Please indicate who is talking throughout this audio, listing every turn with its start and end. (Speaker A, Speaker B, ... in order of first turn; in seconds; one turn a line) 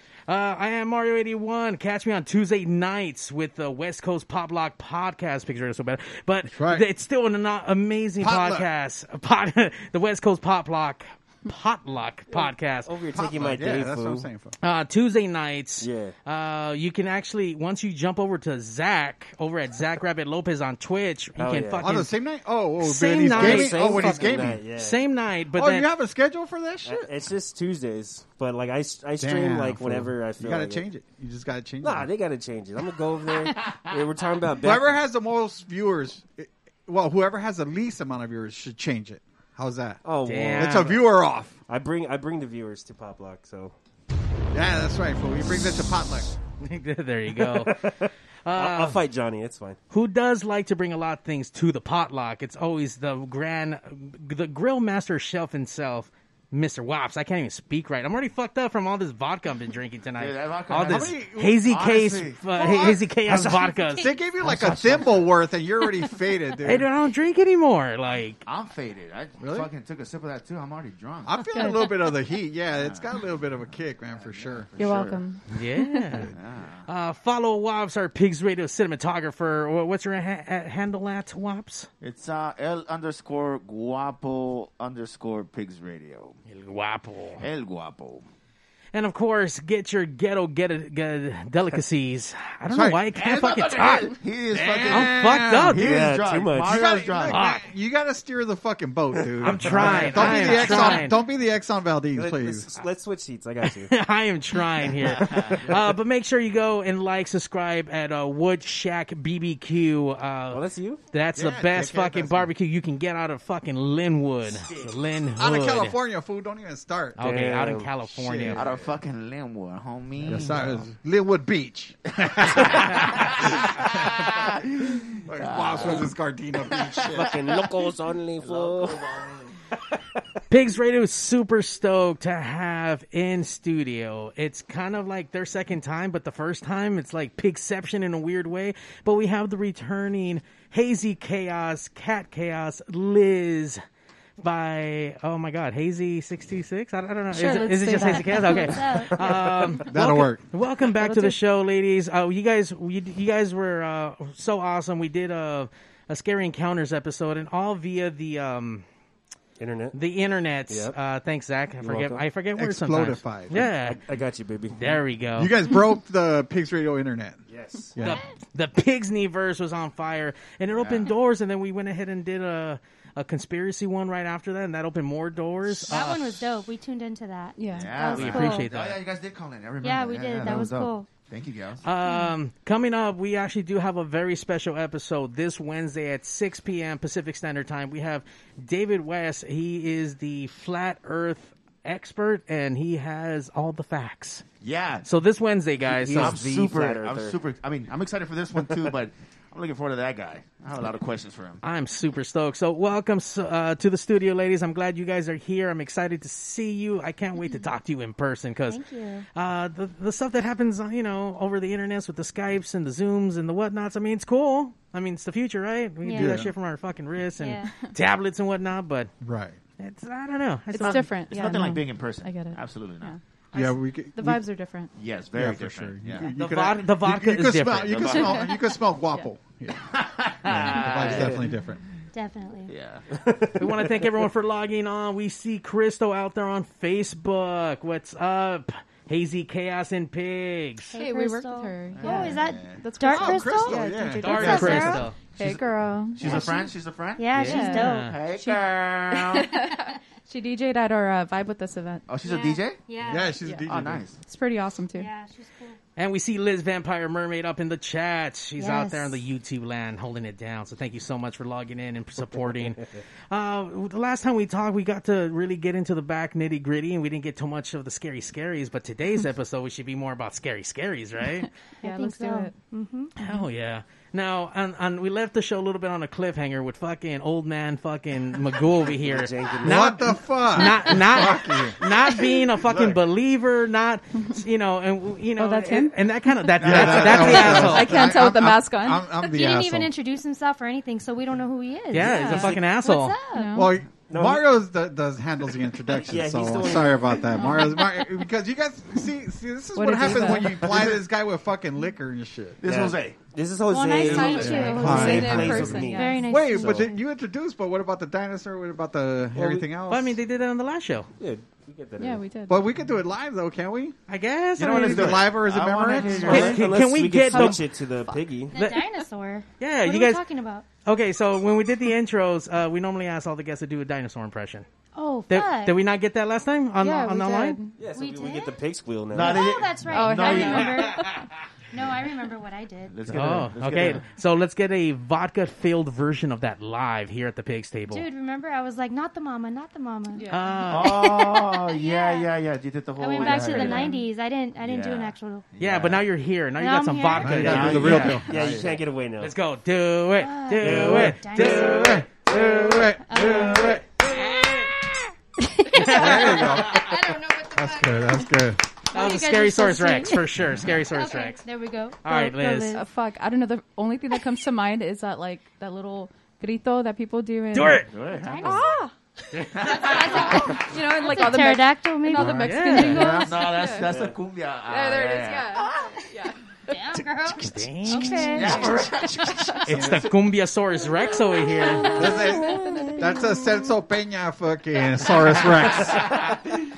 Speaker A: 0.3-12.9
Speaker B: 6.5-6.8
Speaker B: 8.2-8.7
Speaker C: 12.3-14.3
Speaker B: 13.1-14.6
Speaker A: 14.6-22.1
Speaker C: 15.8-16.1
Speaker C: 21.4-22.0
Speaker B: 21.8-24.6
Speaker A: 22.8-25.9
Speaker C: 23.3-25.0
Speaker B: 25.5-27.2
Speaker C: 26.8-30.9
Speaker B: 29.2-32.1
Speaker C: 31.8-35.0
Speaker B: 34.6-40.0
Speaker C: 40.0-41.0
Speaker A: 40.2-41.0
Speaker B: 40.6-41.6
Speaker C: 41.7-43.7
Speaker B: 44.5-46.3
Speaker A: 46.6-47.9
Speaker C: 47.4-49.8
Speaker A: 48.5-49.0
Speaker A: 49.9-64.8
Speaker D: 60.2-62.4
Speaker B: 60.8-61.9
Speaker B: 62.6-66.9
Speaker A: 66.6-68.4
Speaker D: 68.4-71.4
Speaker B: 69.4-69.7
Speaker B: 71.3-74.7
Speaker E: 71.5-71.9
Speaker F: 71.6-71.9
Speaker D: 72.8-73.0
Speaker D: 74.2-75.2
Speaker E: 74.8-76.3
Speaker A: 75.5-76.3
Speaker D: 76.3-76.9
Speaker A: 76.9-81.9
Speaker D: 82.0-86.4
Speaker A: 86.5-87.4
Speaker D: 87.4-88.2
Speaker A: 88.9-94.2
Speaker B: 92.7-93.0
Speaker D: 93.1-97.4
Speaker B: 94.5-95.9
Speaker A: 94.9-95.9
Speaker C: 95.8-97.0
Speaker B: 96.6-102.7
Speaker A: 97.3-97.7
Speaker C: 99.2-101.1
Speaker A: 99.4-101.2
Speaker C: 102.1-104.0
Speaker A: 103.6-116.0
Speaker C: 104.8-105.7
Speaker C: 110.5-111.0
Speaker B: 111.4-112.5
Speaker D: 114.5-115.0
Speaker B: 115.4-117.4
Speaker A: 117.2-118.7
Speaker C: 117.2-117.9
Speaker B: 118.1-118.8
Speaker D: 118.5-120.8
Speaker B: 120.2-127.3
Speaker D: 122.5-127.5
Speaker C: 127.1-129.1
Speaker D: 128.4-129.6
Speaker A: 130.5-143.8
Speaker A: 144.4-158.8
Speaker E: 147.3-148.8
Speaker F: 148.3-149.2
Speaker C: 149.3-149.7
Speaker B: 149.8-150.4
Speaker E: 151.0-151.4
Speaker C: 159.6-160.0
Speaker A: 159.9-164.0
Speaker C: 160.7-161.0
Speaker C: 161.8-162.2
Speaker B: 162.6-163.7
Speaker C: 163.5-165.0
Speaker A: 164.7-165.5
Speaker B: 165.4-167.4
Speaker C: 167.5-168.0
Speaker B: 168.0-168.2
Speaker A: 168.0-176.4
Speaker D: 170.7-171.1
Speaker F: 175.9-178.7
Speaker E: 177.6-177.9
Speaker D: 177.7-181.8
Speaker A: 178.1-179.0
Speaker F: 179.8-181.1
Speaker A: 181.8-194.4
Speaker E: 182.1-182.3
Speaker D: 194.6-195.1
Speaker A: 195.1-196.4
Speaker C: 195.8-197.4
Speaker D: 196.2-201.6
Speaker A: 201.6-208.8
Speaker F: 208.7-209.3
Speaker A: 209.3-219.1
Speaker F: 216.0-216.4
Speaker B: 216.2-216.5
Speaker F: 217.4-217.7
Speaker B: 219.2-219.6
Speaker A: 219.8-221.1
Speaker E: 220.7-224.9
Speaker D: 220.8-223.2
Speaker B: 223.5-224.4
Speaker D: 224.9-226.3
Speaker B: 225.3-231.8
Speaker A: 226.2-228.2
Speaker D: 227.9-228.5
Speaker E: 228.2-229.3
Speaker D: 229.9-231.5
Speaker F: 232.1-232.7
Speaker D: 232.7-233.1
Speaker C: 233.2-233.9
Speaker A: 233.6-240.9
Speaker F: 240.9-245.0
Speaker E: 241.0-246.5
Speaker D: 241.9-242.8
Speaker B: 243.1-245.0
Speaker A: 244.2-245.2
Speaker D: 245.4-249.6
Speaker F: 246.2-248.6
Speaker A: 247.4-248.1
Speaker E: 247.4-247.8
Speaker E: 249.3-252.1
Speaker D: 252.1-252.8
Speaker F: 252.2-253.4
Speaker B: 253.1-254.1
Speaker D: 253.7-254.2
Speaker E: 254.2-255.1
Speaker F: 254.9-255.8
Speaker A: 256.0-271.5
Speaker F: 258.6-259.2
Speaker C: 262.3-263.0
Speaker F: 271.8-273.1
Speaker E: 271.8-272.6
Speaker A: 273.2-288.1
Speaker C: 278.9-280.2
Speaker B: 279.6-281.9
Speaker B: 282.6-283.0
Speaker E: 285.4-289.1
Speaker B: 286.6-289.9
Speaker F: 289.3-293.7
Speaker A: 291.9-293.2
Speaker E: 292.0-292.5
Speaker E: 293.3-293.8
Speaker B: 293.6-302.6
Speaker C: 294.1-294.5
Speaker C: 296.0-297.4
Speaker E: 297.4-298.0
Speaker E: 299.8-300.7
Speaker D: 300.5-301.1
Speaker D: 302.6-303.2
Speaker C: 302.6-306.9
Speaker F: 303.7-306.9
Speaker E: 304.1-306.5
Speaker B: 304.2-310.2
Speaker C: 309.3-309.7
Speaker A: 309.9-311.1
Speaker C: 311.2-312.4
Speaker E: 312.0-312.7
Speaker B: 312.5-314.0
Speaker A: 314.1-315.3
Speaker D: 314.6-316.7
Speaker B: 314.6-316.6
Speaker A: 316.2-317.6
Speaker C: 316.3-318.6
Speaker E: 317.3-318.2
Speaker F: 318.5-320.6
Speaker A: 318.6-318.8
Speaker A: 319.6-320.2
Speaker A: 320.9-324.6
Speaker F: 324.9-325.8
Speaker A: 325.3-327.6
Speaker E: 326.8-327.8
Speaker C: 327.8-329.4
Speaker F: 327.9-328.6
Speaker D: 329.1-330.9
Speaker F: 329.1-332.9
Speaker E: 329.9-331.1
Speaker D: 332.9-334.0
Speaker A: 333.1-338.1
Speaker F: 337.9-342.3
Speaker E: 340.1-340.6
Speaker A: 340.3-340.9
Speaker D: 340.7-344.0
Speaker F: 343.0-345.4
Speaker E: 343.2-343.9
Speaker D: 344.6-346.0
Speaker A: 345.6-348.2
Speaker F: 346.6-347.8
Speaker B: 347.2-348.7
Speaker D: 347.4-348.3
Speaker C: 347.4-349.3
Speaker A: 349.2-352.0
Speaker F: 350.2-351.9
Speaker C: 350.6-352.6
Speaker B: 351.4-353.9
Speaker F: 353.0-353.8
Speaker F: 355.4-357.7
Speaker A: 355.8-356.5
Speaker B: 355.8-357.0
Speaker B: 357.6-358.6
Speaker F: 358.9-360.3
Speaker A: 358.9-361.4
Speaker F: 360.9-362.8
Speaker A: 362.0-362.8
Speaker E: 362.7-367.9
Speaker A: 367.5-367.9
Speaker D: 367.9-368.7
Speaker F: 368.2-368.8
Speaker E: 368.4-368.9
Speaker D: 369.6-370.6
Speaker E: 369.6-373.9
Speaker F: 369.8-373.3
Speaker A: 372.2-373.2
Speaker D: 373.0-375.7
Speaker C: 373.8-374.1
Speaker E: 374.7-376.4
Speaker F: 375.6-376.1
Speaker F: 376.7-378.7
Speaker A: 377.3-378.7
Speaker E: 377.9-378.8
Speaker D: 378.3-380.0
Speaker A: 379.6-382.2
Speaker B: 379.7-380.1
Speaker F: 381.5-381.9
Speaker E: 381.6-383.3
Speaker B: 381.9-386.2
Speaker D: 385.2-386.4